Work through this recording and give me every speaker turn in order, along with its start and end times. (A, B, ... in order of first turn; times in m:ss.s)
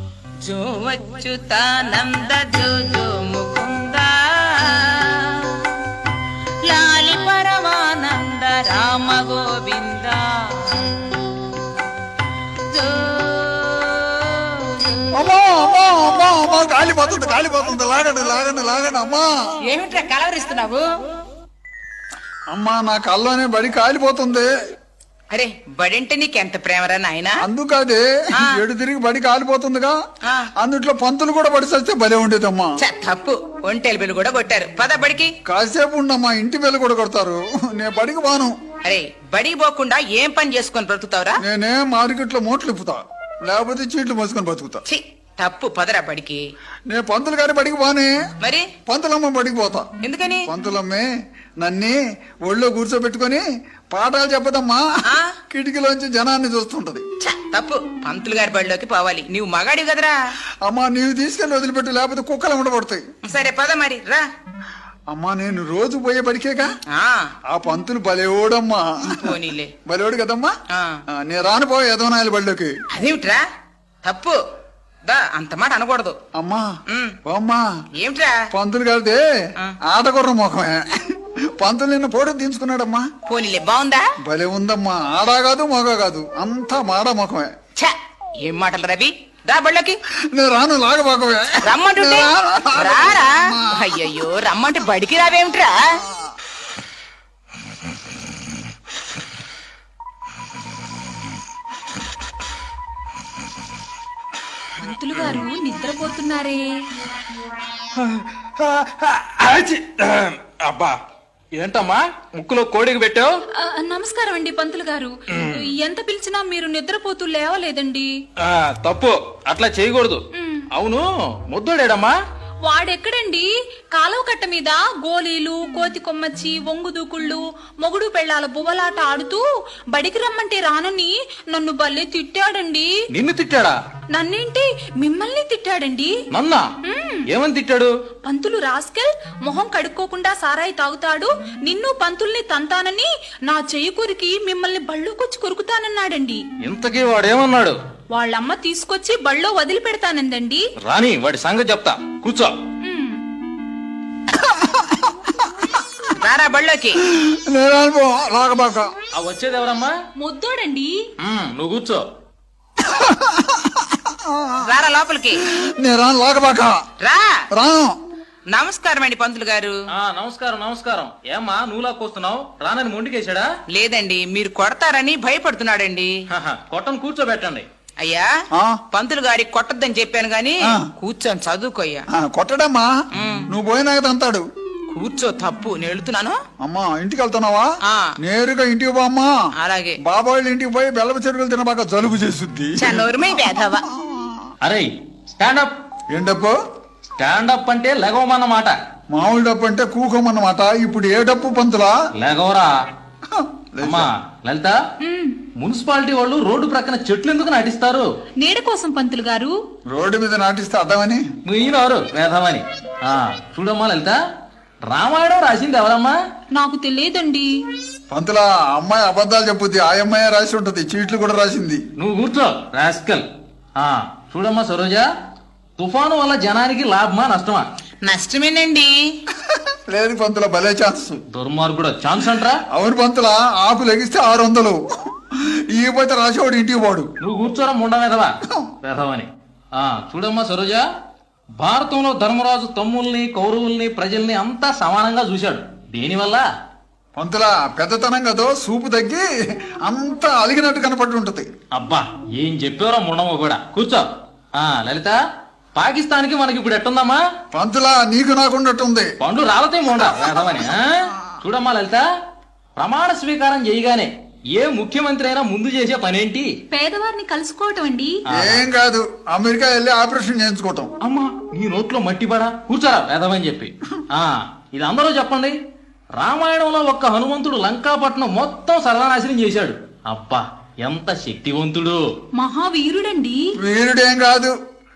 0:00.4-0:05.8 A
0:06.6-0:11.5 A
0:12.7-0:15.1 A
0:15.1-0:19.4 B
0:19.6-0:21.0 A
0:22.5-0:24.5 B
0:25.3-0:27.4 A
0:27.4-0:30.0 B
0:28.3-0:28.6 A
0:30.2-0:30.5 A
0:30.6-0:32.8 B
0:32.8-0:35.3 A
0:35.4-0:38.6 B
0:38.8-0:41.4 A
0:41.4-0:44.8 B
0:44.9-0:46.4 A
0:46.9-0:48.1 B
0:48.4-0:48.7 A
0:48.9-0:49.9 B
0:50.0-0:50.5 A
0:50.5-0:51.1 B
0:51.6-0:54.8 B
0:55.1-0:55.3 A
0:55.5-0:57.0 B
0:57.2-1:00.2 A
1:00.6-1:03.1 B
1:03.2-1:04.2 A
1:05.1-1:06.7 B
1:06.9-1:07.3 A
1:07.5-1:10.6 B
1:09.2-1:09.7 A
1:10.7-1:11.0 A
1:11.1-1:12.7 B
1:12.9-1:13.4 A
1:14.0-1:14.4 A
1:15.1-1:16.2 A
1:16.3-1:16.7 B
1:16.9-1:17.2 A
1:17.2-1:17.6 B
1:18.0-1:18.4 A
1:18.5-1:19.2 B
1:19.9-1:23.1 B
1:23.2-1:24.1 A
1:24.2-1:27.5 B
1:27.8-1:30.0 A
1:30.3-1:34.3 B
1:31.6-1:36.0 A
1:44.8-1:46.7 C
1:47.9-1:51.0 D
1:51.6-1:53.3 D
1:53.6-1:58.1 C
1:55.3-1:55.6 D
1:58.4-2:02.1 D
2:00.3-2:00.7 C
2:02.6-2:12.9 C
2:13.1-2:13.8 D
2:14.1-2:16.2 C
2:16.3-2:16.7 D
2:16.8-2:17.2 C
2:17.3-2:17.9 D
2:18.2-2:26.4 C
2:26.6-2:27.8 D
2:28.1-2:30.6 C
2:30.8-2:32.6 D
2:32.8-2:33.2 C
2:34.3-2:35.8 B
2:36.2-2:37.0 A
2:37.0-2:38.9 B
2:39.1-2:40.0 D
2:40.2-2:41.0 C
2:41.2-2:42.0 D
2:42.8-2:44.7 B
2:44.6-2:45.4 A
2:45.4-2:46.8 B
2:47.0-2:47.4 A
2:47.5-2:48.0 B
2:48.5-2:49.8 A
2:49.9-2:53.5 D
2:53.7-2:56.1 A
2:56.3-2:57.7 D
2:58.0-2:58.3 A
2:58.6-2:58.8 B
2:58.9-3:02.0 A
3:02.1-3:02.9 B
3:03.1-3:03.5 A
3:03.5-3:04.5 B
3:04.9-3:06.4 A
3:06.6-3:09.3 B
3:07.8-3:08.2 A
3:09.6-3:10.0 A
3:10.0-3:14.5 B
3:12.8-3:13.8 A
3:14.6-3:15.7 D
3:16.1-3:16.6 B
3:17.2-3:18.8 D
3:19.1-3:22.0 B
3:22.2-3:22.8 D
3:23.3-3:24.1 B
3:23.8-3:24.8 D
3:25.0-3:25.4 C
3:25.6-3:28.1 D
3:28.4-3:29.6 C
3:29.9-3:31.2 B
3:31.4-3:34.2 D
3:34.9-3:36.2 D
3:36.5-3:37.5 C
3:38.1-3:41.8 B
3:42.0-3:43.2 D
3:43.8-3:45.1 D
3:45.8-3:47.7 D
3:48.0-3:49.2 A
3:49.5-3:51.2 B
3:51.3-3:52.6 D
3:52.7-3:57.1 B
3:57.2-4:00.8 D
4:01.6-4:06.4 D
4:07.2-4:09.3 B
4:09.8-4:11.5 B
4:11.7-4:15.2 D
4:15.8-4:17.2 D
4:17.5-4:19.1 B
4:19.2-4:22.0 D
4:22.8-4:26.5 D
4:26.7-4:28.2 C
4:28.3-4:28.6 D
4:28.3-4:30.9 B
4:31.0-4:35.6 D
4:36.2-4:42.0 D
4:42.4-4:43.5 C
4:43.6-4:44.5 B